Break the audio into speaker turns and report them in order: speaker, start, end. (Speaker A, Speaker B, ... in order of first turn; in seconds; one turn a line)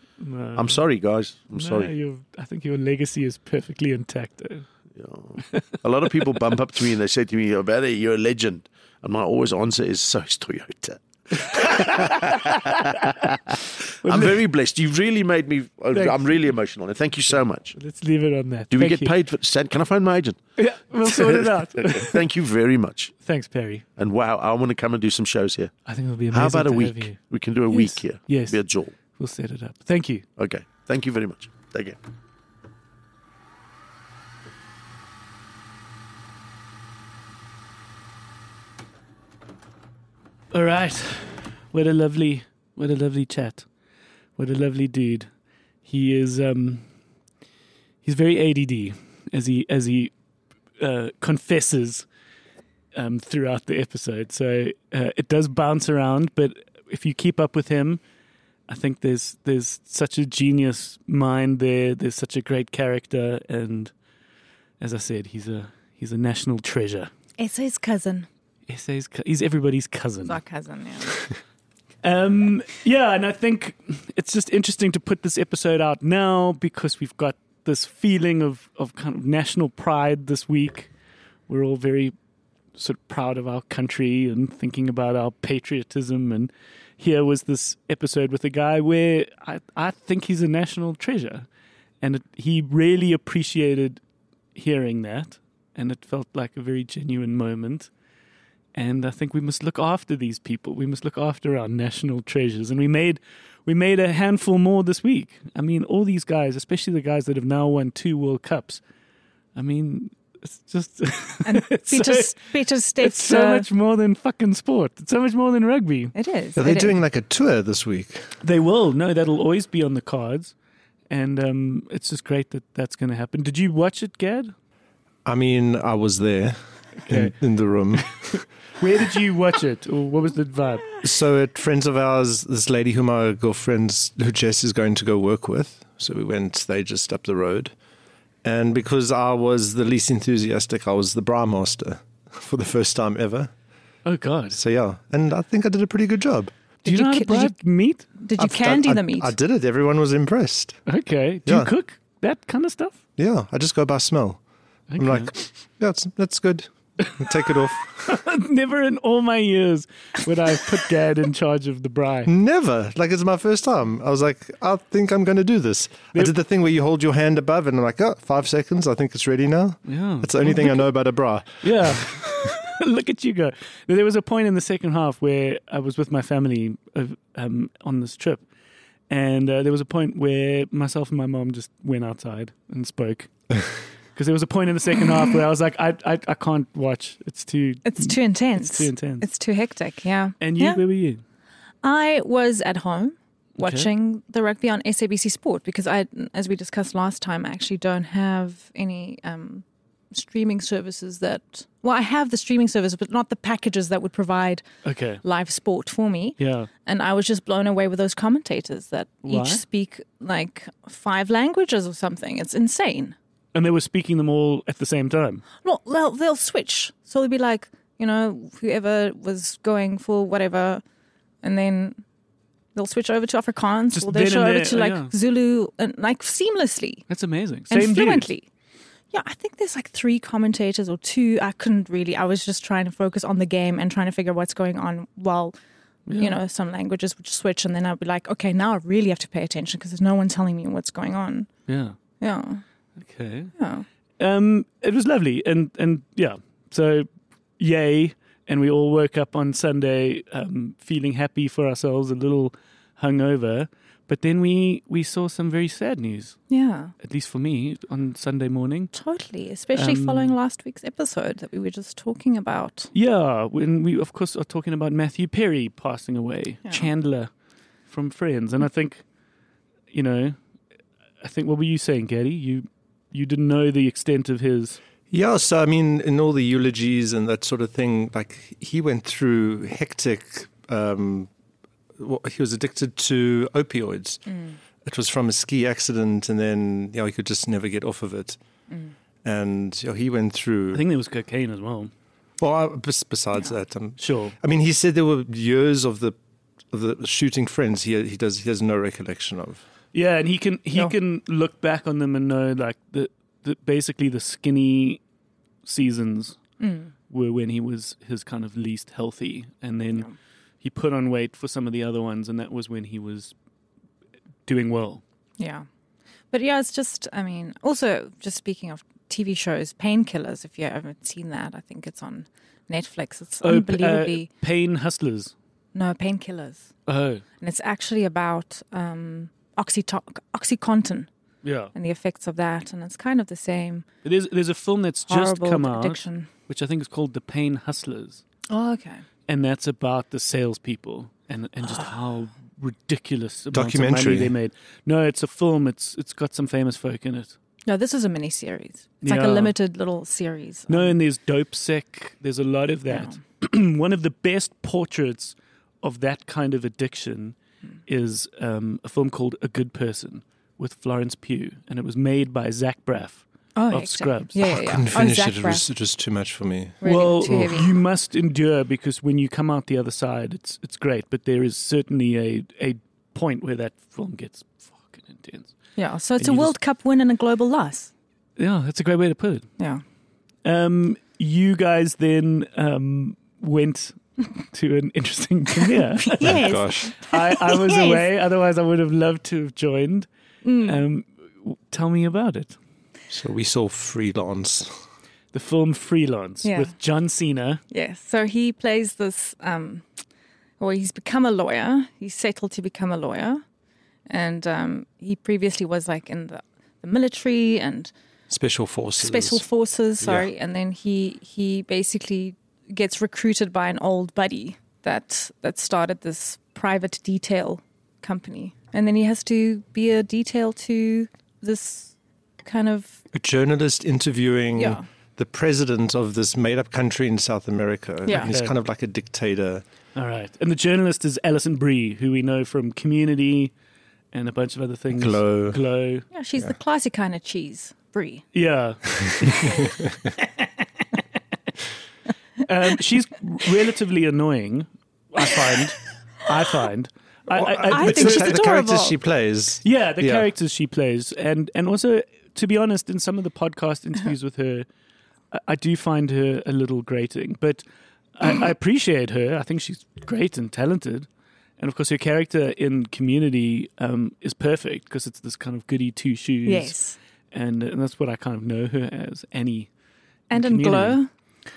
Speaker A: 0.2-0.8
Speaker B: 0.6-1.9
Speaker A: 1.5-4.7
Speaker B: 4.9-17.8
Speaker A: 11.5-13.4
Speaker A: 14.0-14.4
Speaker A: 15.9-16.5
Speaker A: 17.8-19.1
Speaker B: 18.7-20.5
Speaker A: 20.6-22.2
Speaker B: 21.0-23.1
Speaker A: 23.2-23.8
Speaker B: 24.0-25.7
Speaker A: 25.9-27.2
Speaker B: 26.3-28.9
Speaker A: 27.7-30.2
Speaker B: 30.4-32.0
Speaker A: 40.5-43.7
Speaker A: 44.4-45.3
Speaker A: 45.8-46.9
Speaker A: 48.0-50.1
Speaker A: 50.8-52.1
Speaker A: 52.9-58.0
Speaker A: 58.7-63.9
Speaker A: 64.8-67.1
Speaker C: 67.4-68.3
Speaker A: 68.7-70.4
Speaker C: 70.3-71.3
Speaker A: 72.0-80.9
Speaker A: 81.5-82.1
Speaker A: 82.8-91.5
Speaker A: 92.0-94.0
Speaker A: 94.5-97.9
Speaker A: 98.8-108.8
Speaker A: 109.5-112.4
Speaker C: 111.5-113.7
Speaker A: 113.0-116.1
Speaker C: 116.2-117.0
Speaker D: 116.6-118.3
Speaker A: 118.4-120.5
Speaker A: 121.1-124.5
Speaker D: 125.2-128.4
Speaker A: 127.0-127.4
Speaker A: 128.0-130.9
Speaker D: 131.0-137.7
Speaker D: 138.4-143.5
Speaker A: 144.1-144.6
Speaker D: 144.5-146.5
Speaker A: 146.8-148.1
Speaker C: 146.8-147.6
Speaker C: 148.2-149.3
Speaker D: 148.4-150.8
Speaker A: 150.9-153.0
Speaker D: 151.5-151.7
Speaker D: 153.2-154.4
Speaker A: 154.9-155.3
Speaker D: 155.0-158.2
Speaker A: 158.0-162.3
Speaker D: 162.3-172.1
Speaker A: 169.8-170.9
Speaker A: 171.6-178.5
Speaker A: 179.1-183.3
Speaker A: 184.2-189.3
Speaker C: 187.8-190.8
Speaker A: 190.4-191.2
Speaker C: 191.8-204.6
Speaker A: 193.6-193.9
Speaker A: 204.8-205.2
Speaker C: 205.2-213.2
Speaker A: 206.4-206.7
Speaker A: 209.2-209.6
Speaker A: 213.5-215.4
Speaker C: 215.6-220.8
Speaker C: 221.4-222.0
Speaker C: 222.8-227.1
Speaker A: 223.9-225.1
Speaker A: 227.1-228.3
Speaker C: 227.7-228.5
Speaker C: 229.1-235.5
Speaker A: 236.1-236.4
Speaker C: 236.2-241.5
Speaker A: 241.7-242.0
Speaker C: 242.2-242.6
Speaker A: 243.0-243.5
Speaker C: 243.6-243.9
Speaker A: 244.2-256.4
Speaker C: 256.5-256.9
Speaker A: 257.0-258.9
Speaker C: 258.9-262.9
Speaker A: 259.7-260.3
Speaker A: 262.9-267.3
Speaker A: 267.9-269.0
Speaker A: 269.9-270.4
Speaker A: 271.2-274.8
Speaker D: 275.1-281.3
Speaker D: 282.0-288.4
Speaker C: 284.3-284.6
Speaker D: 289.2-290.8
Speaker A: 290.7-291.9
Speaker D: 292.4-296.2
Speaker A: 294.0-294.4
Speaker D: 296.7-299.6
Speaker A: 299.9-305.0
Speaker A: 305.6-306.4
Speaker C: 306.6-306.9
Speaker A: 307.1-310.1
Speaker A: 310.6-313.3
Speaker A: 314.5-315.0
Speaker C: 315.4-315.7
Speaker C: 316.3-324.3
Speaker A: 323.4-325.3
Speaker C: 325.7-326.7
Speaker A: 326.9-327.2
Speaker C: 327.4-331.1
Speaker A: 331.4-331.7
Speaker C: 331.7-333.9
Speaker A: 334.0-338.2
Speaker C: 335.1-336.3
Speaker C: 338.5-339.0
Speaker A: 339.3-347.4
Speaker D: 343.5-344.3
Speaker C: 347.6-351.0
Speaker A: 349.0-349.5
Speaker A: 350.7-357.4
Speaker C: 352.9-353.2
Speaker A: 357.9-364.4
Speaker C: 363.6-365.7
Speaker D: 364.4-367.6
Speaker C: 366.8-367.7
Speaker A: 366.8-375.5
Speaker C: 375.8-377.9
Speaker A: 376.2-376.5
Speaker A: 378.4-379.5
Speaker A: 380.4-390.1
Speaker C: 386.1-388.1
Speaker D: 386.2-386.9
Speaker C: 390.4-390.8
Speaker A: 390.6-392.6
Speaker D: 393.1-394.7
Speaker A: 395.3-397.6
Speaker C: 396.4-396.7
Speaker C: 397.7-399.9
Speaker C: 400.6-403.4
Speaker C: 404.1-407.9
Speaker D: 408.3-409.4
Speaker C: 409.0-423.0
Speaker D: 410.0-410.3
Speaker D: 423.1-429.6
Speaker C: 424.6-424.8
Speaker C: 428.1-428.3
Speaker A: 428.1-428.6
Speaker A: 429.9-433.5
Speaker A: 434.1-436.1
Speaker D: 435.0-435.6
Speaker C: 436.1-438.3
Speaker A: 438.3-439.6
Speaker D: 439.0-439.9
Speaker A: 442.4-448.4
Speaker D: 447.3-450.3
Speaker C: 447.7-449.0
Speaker A: 449.6-454.7
Speaker A: 455.3-457.6
Speaker A: 458.2-466.8
Speaker C: 466.5-467.0
Speaker A: 467.3-469.7
Speaker C: 470.3-471.1
Speaker A: 470.3-471.0